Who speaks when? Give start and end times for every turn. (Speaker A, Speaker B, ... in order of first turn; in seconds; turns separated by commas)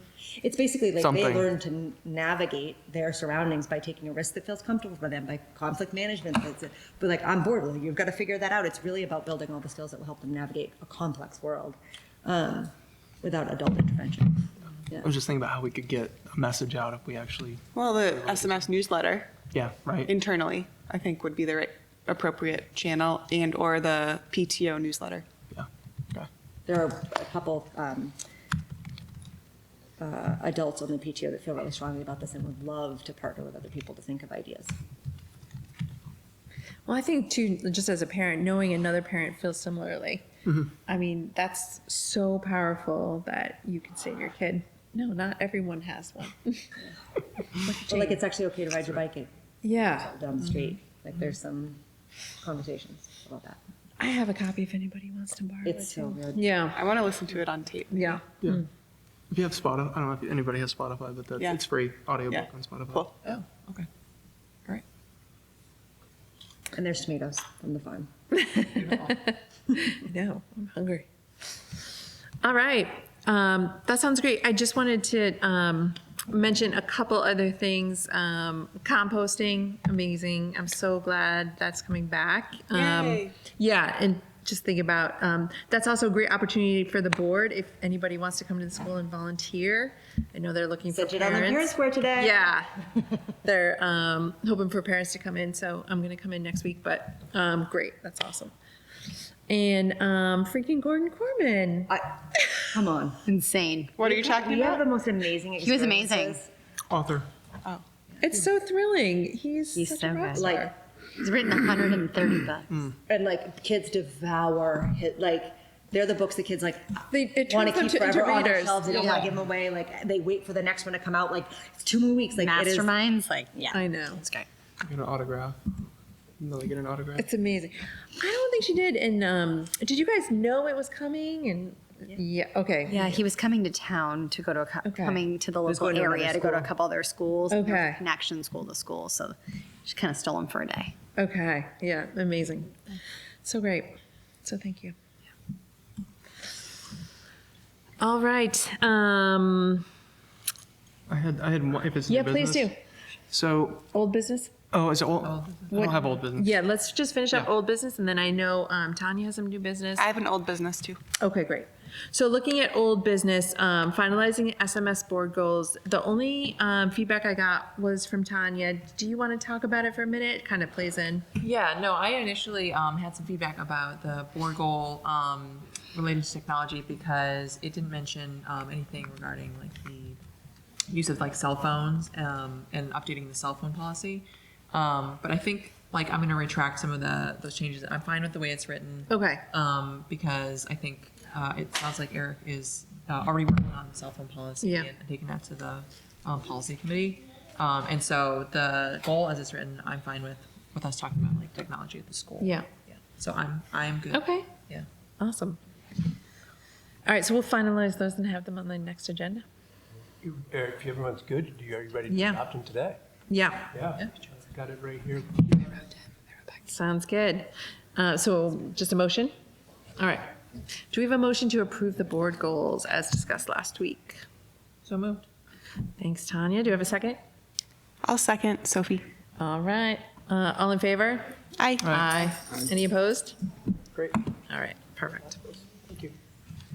Speaker A: 0.4-15.1, Speaker B: 1.0-1.5, Speaker B: 15.0-18.7, Speaker C: 17.7-19.3, Speaker B: 19.5-20.1, Speaker C: 20.0-25.2, Speaker B: 25.5-26.3, Speaker A: 26.6-28.1, Speaker A: 30.0-34.7, Speaker D: 36.9-40.2, Speaker D: 40.8-46.8, Speaker D: 47.6-48.2, Speaker A: 47.8-51.8, Speaker D: 49.6-50.1, Speaker A: 52.4-53.6, Speaker D: 54.0-56.8, Speaker A: 55.6-56.6, Speaker C: 56.7-58.2, Speaker D: 57.9-58.6, Speaker B: 59.3-63.0, Speaker C: 62.3-63.1, Speaker E: 63.2-63.9, Speaker A: 66.7-68.1, Speaker D: 68.3-71.0, Speaker D: 72.4-92.7, Speaker C: 82.7-83.4, Speaker A: 90.9-92.4, Speaker D: 93.3-98.5, Speaker D: 99.5-101.9, Speaker A: 102.7-103.2, Speaker F: 103.2-103.9, Speaker C: 104.0-104.8, Speaker A: 104.0-106.5, Speaker F: 105.6-106.4, Speaker B: 106.9-107.3, Speaker D: 108.2-110.7, Speaker F: 109.7-110.5, Speaker A: 110.3-110.7, Speaker F: 111.2-112.7, Speaker A: 113.1-122.9, Speaker D: 117.1-119.2, Speaker F: 118.9-119.3, Speaker F: 122.4-124.5, Speaker D: 123.7-124.2, Speaker B: 124.8-125.6, Speaker B: 126.4-127.3, Speaker D: 127.2-133.2, Speaker F: 132.9-140.9, Speaker D: 134.8-135.2, Speaker A: 135.7-136.7, Speaker D: 137.5-138.1, Speaker D: 141.2-142.8, Speaker D: 143.4-144.9, Speaker D: 148.0-149.9, Speaker B: 151.1-152.7, Speaker D: 152.1-152.7, Speaker B: 153.3-153.9, Speaker D: 153.9-154.5, Speaker B: 154.7-156.5, Speaker E: 155.2-156.2, Speaker D: 155.7-160.1, Speaker C: 159.9-161.0, Speaker D: 161.2-171.3, Speaker E: 171.3-180.2, Speaker E: 180.9-204.8, Speaker D: 189.1-189.4, Speaker D: 194.6-194.9, Speaker D: 202.4-202.7, Speaker D: 204.1-204.5, Speaker D: 205.2-205.6, Speaker D: 207.0-209.4, Speaker G: 210.2-213.0, Speaker D: 212.1-212.4, Speaker D: 213.3-213.7, Speaker G: 213.7-215.8, Speaker D: 216.5-219.3, Speaker D: 220.0-220.3, Speaker D: 220.9-224.2, Speaker D: 224.8-225.2, Speaker D: 226.0-227.2, Speaker C: 228.0-229.0, Speaker D: 229.4-233.4, Speaker C: 231.6-231.9, Speaker D: 234.4-235.4, Speaker G: 235.7-236.1